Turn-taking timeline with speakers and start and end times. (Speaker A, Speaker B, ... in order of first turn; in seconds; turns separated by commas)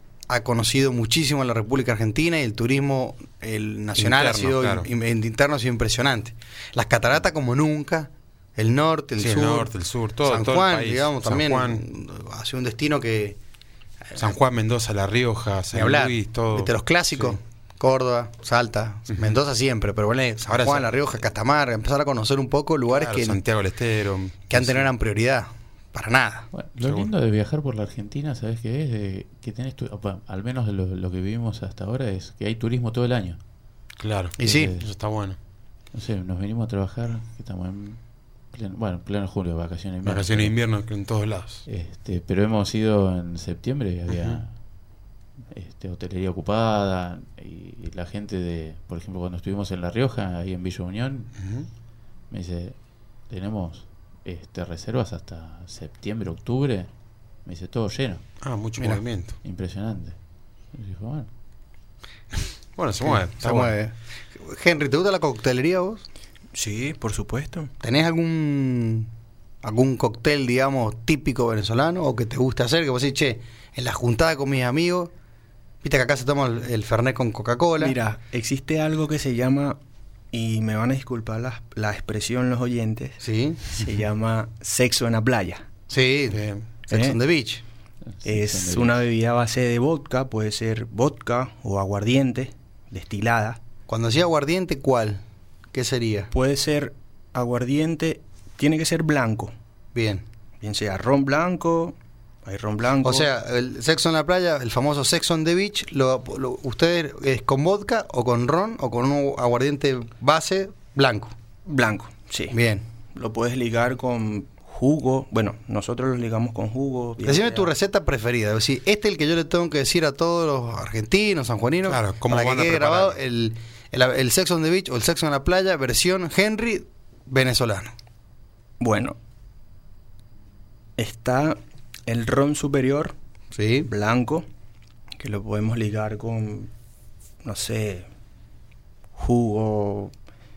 Speaker A: 0.3-9.7, Speaker B: 4.0-4.8, Speaker B: 9.2-11.8, Speaker A: 10.2-13.4, Speaker B: 14.2-17.4, Speaker A: 15.7-23.4, Speaker B: 20.5-20.9, Speaker B: 22.9-24.9, Speaker A: 24.5-26.5, Speaker C: 26.5-33.4, Speaker B: 26.8-27.1, Speaker B: 34.0-35.4, Speaker A: 34.4-34.7, Speaker C: 34.4-34.9, Speaker C: 35.9-38.0, Speaker C: 38.5-40.5, Speaker B: 40.0-41.6, Speaker C: 41.7-44.5, Speaker B: 44.1-44.4, Speaker C: 45.5-51.3, Speaker B: 51.4-51.7, Speaker C: 52.3-52.8, Speaker C: 53.3-56.9, Speaker C: 57.4-58.2, Speaker B: 58.4-59.3, Speaker C: 59.4-60.2, Speaker C: 60.7-61.3, Speaker B: 62.8-63.7, Speaker A: 63.0-66.0, Speaker D: 66.5-67.7, Speaker A: 67.8-69.1, Speaker A: 69.6-75.1, Speaker A: 75.8-78.0, Speaker D: 77.8-79.8, Speaker D: 80.3-85.6, Speaker A: 83.2-83.6, Speaker A: 85.9-87.6, Speaker B: 86.3-86.6, Speaker D: 86.9-87.2, Speaker C: 88.1-89.0, Speaker D: 88.2-93.6, Speaker A: 93.9-95.2, Speaker A: 95.7-96.3, Speaker D: 96.3-99.5, Speaker A: 99.9-100.2, Speaker D: 100.6-103.3, Speaker A: 103.0-111.3, Speaker D: 111.7-112.6, Speaker A: 112.5-112.8, Speaker D: 113.1-117.7, Speaker A: 117.2-127.9, Speaker B: 121.9-123.2, Speaker D: 128.8-129.2, Speaker D: 131.0-133.2, Speaker A: 133.5-133.9, Speaker D: 133.8-134.4, Speaker D: 135.2-136.7, Speaker D: 137.4-138.1, Speaker D: 139.2-140.1